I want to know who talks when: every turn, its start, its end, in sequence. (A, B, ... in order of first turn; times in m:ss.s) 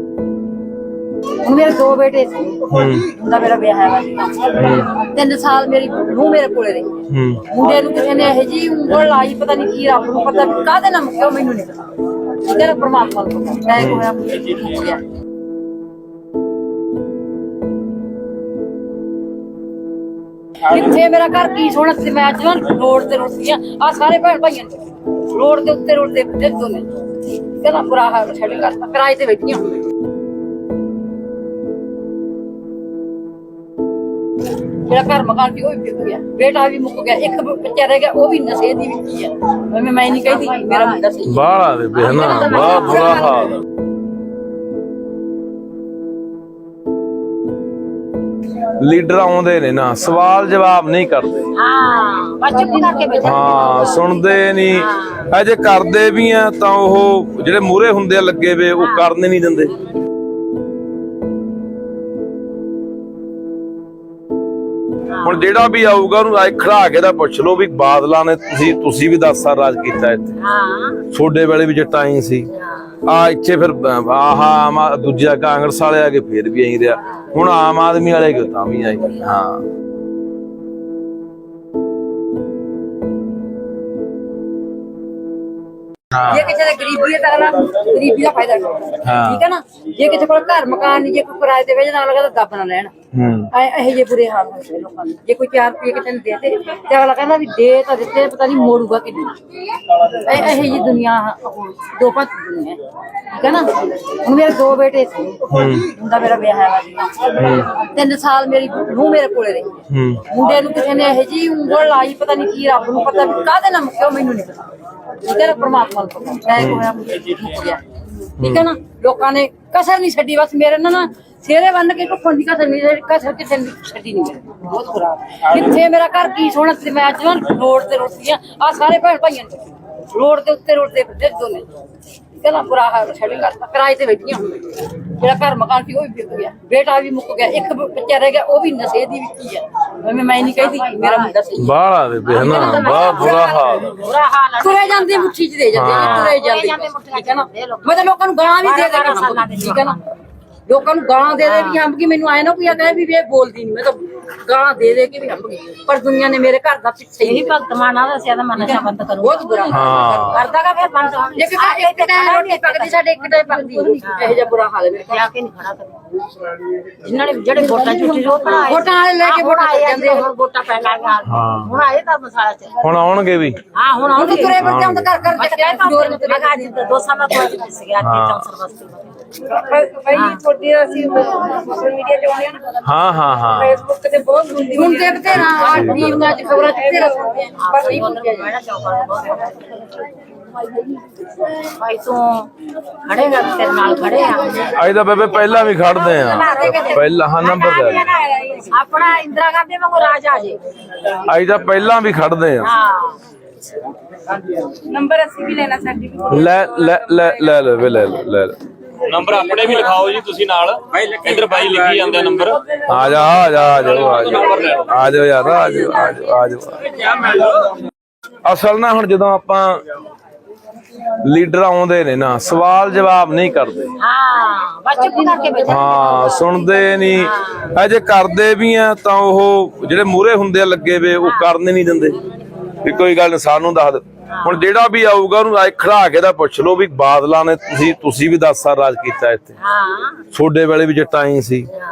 0:01.4-0:07.0 A
0:02.7-0:03.1 B
0:04.6-0:04.9 B
0:07.1-0:07.4 B
0:07.5-0:15.0 A
0:13.8-0:14.1 B
0:20.6-0:26.9 A
0:27.5-0:29.8 A
0:34.8-0:43.5 A
0:40.2-0:41.0 C
0:41.3-0:43.6 B
0:42.1-0:43.2 C
0:48.8-0:51.5 B
0:51.6-0:53.9 C
0:52.5-0:54.2 A
0:53.2-0:59.7 B
0:54.7-0:55.3 C
0:58.8-0:59.0 C
1:05.2-1:10.4 B
1:10.4-1:11.0 C
1:11.1-1:12.5 B
1:13.0-1:19.6 B
1:26.1-1:26.5 B
1:26.3-1:32.9 A
1:29.0-1:29.5 B
1:33.1-1:33.5 B
1:33.5-1:39.4 A
1:40.0-1:49.8 A
1:40.4-1:40.7 B
1:45.5-1:45.9 B
1:47.4-1:47.7 B
1:49.9-1:50.2 B
1:50.3-1:57.8 A
1:56.6-1:56.9 B
1:58.4-1:58.7 B
1:58.4-2:11.7 A
2:12.4-2:21.8 A
2:20.3-2:21.3 C
2:21.6-2:24.0 B
2:22.3-2:28.1 C
2:22.4-2:23.5 A
2:24.6-2:30.0 A
2:25.7-2:26.3 B
2:28.6-2:30.1 C
2:30.7-2:37.6 A
2:31.4-2:31.8 C
2:37.2-2:42.9 C
2:38.6-2:40.5 A
2:39.7-2:40.4 B
2:41.4-2:45.2 A
2:44.0-2:44.4 C
2:45.1-2:46.0 C
2:47.0-2:52.9 C
2:47.7-2:50.3 A
2:51.3-2:51.7 B
2:52.8-2:53.6 B
2:53.8-2:54.6 C
2:54.1-2:56.7 A
2:54.6-2:55.2 B
2:55.4-2:59.1 C
2:58.0-2:58.5 B
2:59.5-3:02.8 A
3:00.1-3:00.4 C
3:02.8-3:03.9 B
3:03.7-3:08.5 A
3:05.3-3:06.4 B
3:07.6-3:09.8 C
3:11.6-3:12.5 C
3:13.0-3:14.8 C
3:14.7-3:18.1 B
3:15.3-3:20.6 C
3:15.9-3:17.0 A
3:21.2-3:22.7 B
3:22.6-3:23.2 C
3:25.0-3:26.3 A
3:26.3-3:28.6 B
3:29.1-3:32.6 D
3:32.9-3:37.4 B
3:33.8-3:34.9 D
3:38.4-3:39.8 B
3:41.2-3:44.0 B
3:44.0-3:46.4 C
3:45.0-3:46.0 A
3:45.6-3:52.2 B
3:47.1-3:47.7 C
3:51.2-3:51.5 C
3:52.8-3:59.6 B
3:54.3-3:54.6 C
3:59.6-4:00.2 C
4:00.3-4:01.7 B